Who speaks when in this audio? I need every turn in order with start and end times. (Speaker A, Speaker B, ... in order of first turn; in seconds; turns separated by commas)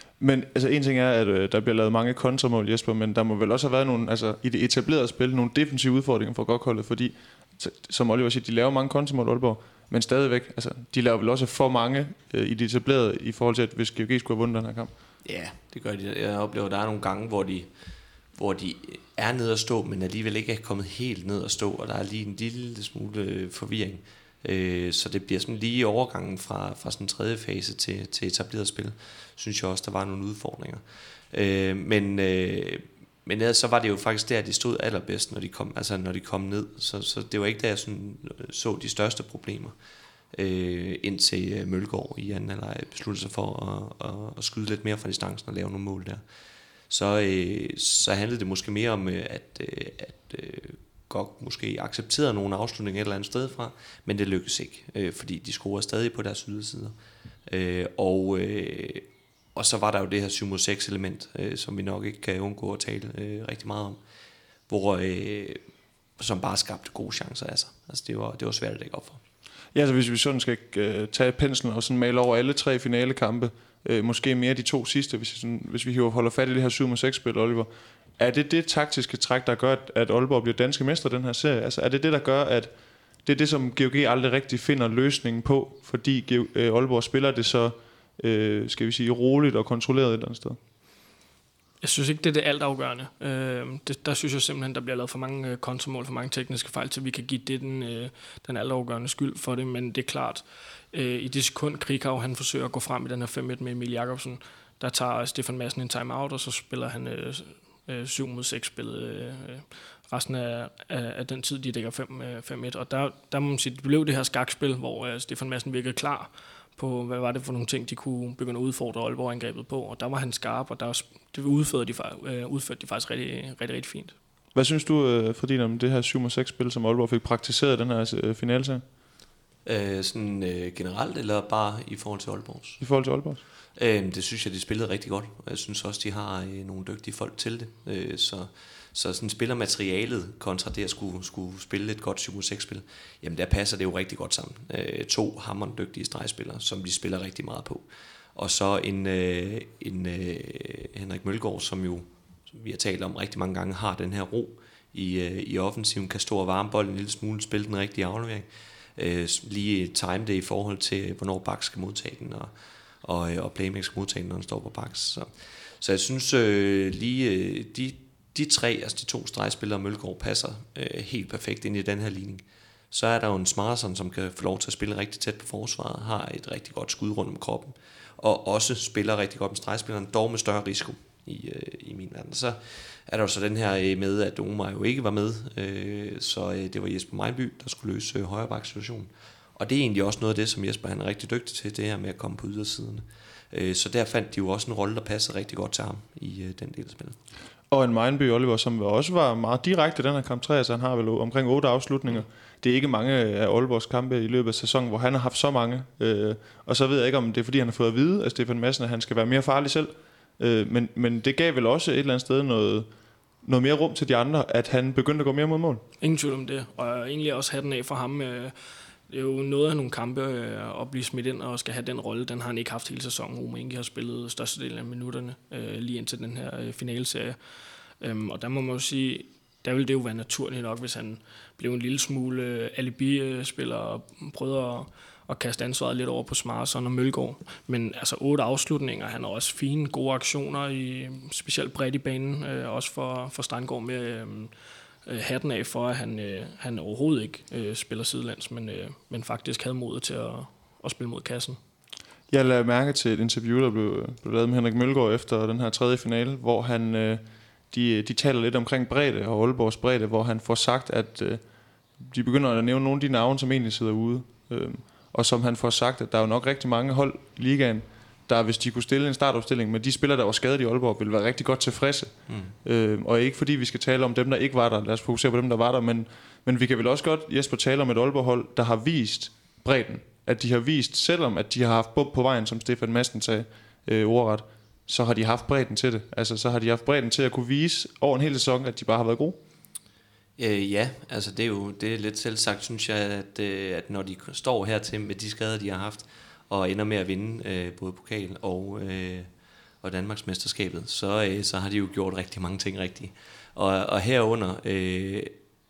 Speaker A: 0.2-14.9, Speaker B: 15.2-17.7, Speaker B: 18.3-39.8, Speaker B: 40.3-46.2, Speaker B: 46.9-56.9, Speaker B: 57.5-64.0, Speaker B: 64.7-65.6, Speaker B: 66.2-69.2, Speaker A: 69.7-82.7, Speaker A: 83.2-90.6, Speaker C: 91.8-124.1, Speaker A: 124.5-128.8, Speaker B: 129.6-132.8, Speaker A: 132.8-133.4, Speaker B: 133.8-197.2, Speaker A: 197.7-212.9, Speaker A: 213.4-215.8, Speaker C: 216.0-218.5, Speaker C: 219.1-227.4, Speaker C: 228.0-244.5, Speaker C: 245.1-251.6, Speaker A: 252.3-261.4, Speaker A: 262.0-289.4, Speaker B: 272.3-272.5, Speaker B: 290.4-299.3, Speaker B: 299.8-305.4